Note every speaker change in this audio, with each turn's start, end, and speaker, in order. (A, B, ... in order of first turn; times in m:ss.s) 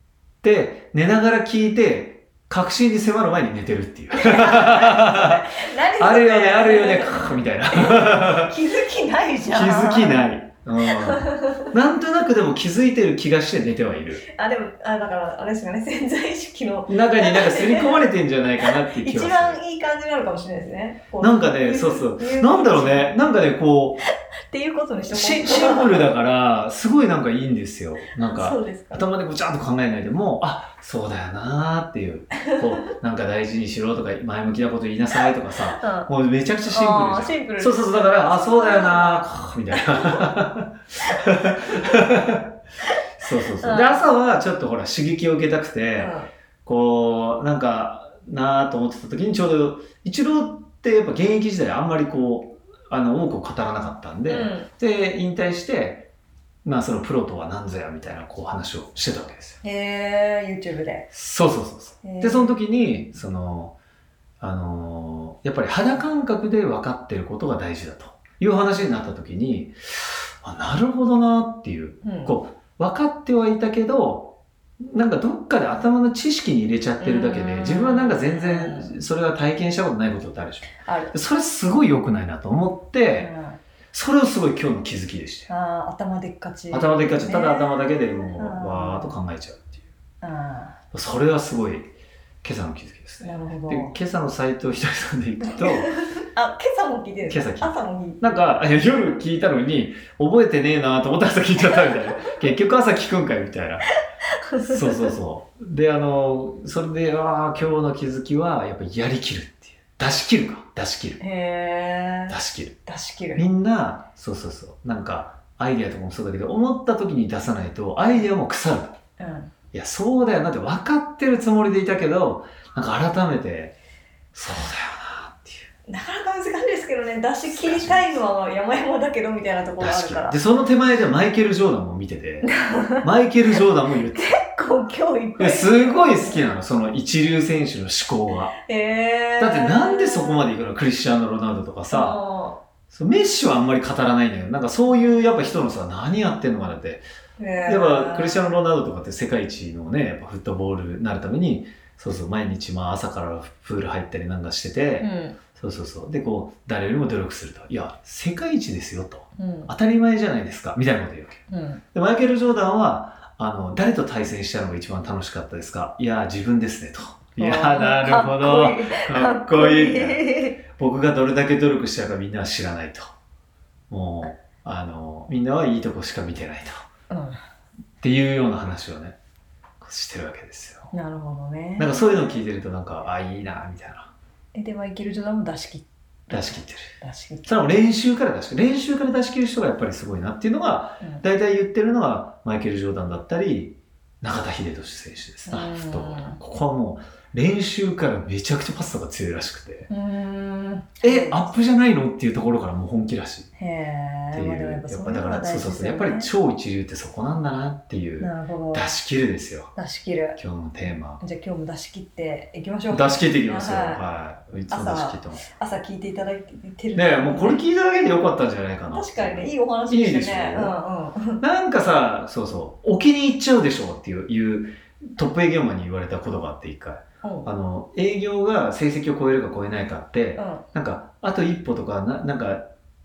0:00.4-0:08.6 A
0:04.1-0:10.3 B
0:09.5-0:14.2 A
0:10.8-0:11.7 B
0:14.3-0:23.1 B
0:16.9-0:19.6 A
0:21.2-0:24.0 A
0:24.5-0:26.1 B
0:25.1-0:42.6 A
0:28.2-0:29.1 B
0:35.8-0:36.1 B
0:36.7-0:40.2 B
0:43.2-0:56.1 A
0:43.6-0:44.1 B
0:46.0-0:46.3 B
0:54.3-0:54.7 B
0:56.6-0:59.6 A
0:59.6-1:01.1 B
1:01.1-1:03.8 A
1:02.0-1:02.6 B
1:04.4-1:23.3 A
1:12.0-1:12.4 B
1:17.0-1:19.0 B
1:20.8-1:21.2 B
1:23.2-1:23.6 B
1:23.9-1:25.5 A
1:25.5-1:29.1 B
1:26.7-1:29.8 A
1:30.2-1:30.8 B
1:30.9-1:35.9 A
1:33.2-1:33.9 B
1:35.6-1:38.2 B
1:37.3-1:43.9 A
1:44.3-1:45.1 B
1:44.6-1:51.2 A
1:51.2-1:53.4 B
1:52.3-1:52.8 A
1:53.3-1:59.0 A
1:59.2-1:59.5 B
1:59.7-2:03.8 A
2:04.3-2:05.7 A
2:05.9-2:10.4 B
2:07.5-2:08.2 A
2:09.8-2:12.5 A
2:12.4-2:13.1 B
2:13.0-2:14.3 A
2:14.1-2:16.4 B
2:15.4-2:18.5 A
2:18.6-2:20.4 B
2:19.4-2:22.2 A
2:21.9-2:22.6 B
2:22.9-2:27.0 A
2:27.4-2:28.5 B
2:27.6-2:53.1 A
2:35.0-2:35.4 B
2:39.4-2:39.7 B
2:41.5-2:41.8 B
2:47.4-2:50.6 B
2:53.9-2:56.7 A
2:57.1-2:57.4 B
2:58.0-2:59.2 A
2:59.8-3:00.9 A
3:00.9-3:02.4 B
3:01.8-3:04.1 A
3:04.5-3:07.6 B
3:06.3-3:19.9 A
3:15.5-3:16.4 B
3:19.9-3:21.6 B
3:21.0-3:23.5 A
3:23.6-3:26.3 B
3:24.3-3:29.7 A
3:28.2-3:28.9 B
3:29.8-3:30.4 B
3:30.4-3:31.2 A
3:31.2-3:34.0 B
3:32.9-3:35.4 A
3:34.7-3:37.6 B
3:36.9-3:40.8 A
3:38.9-3:41.4 B
3:41.4-3:52.7 A
3:47.2-3:47.5 B
3:50.4-3:50.6 B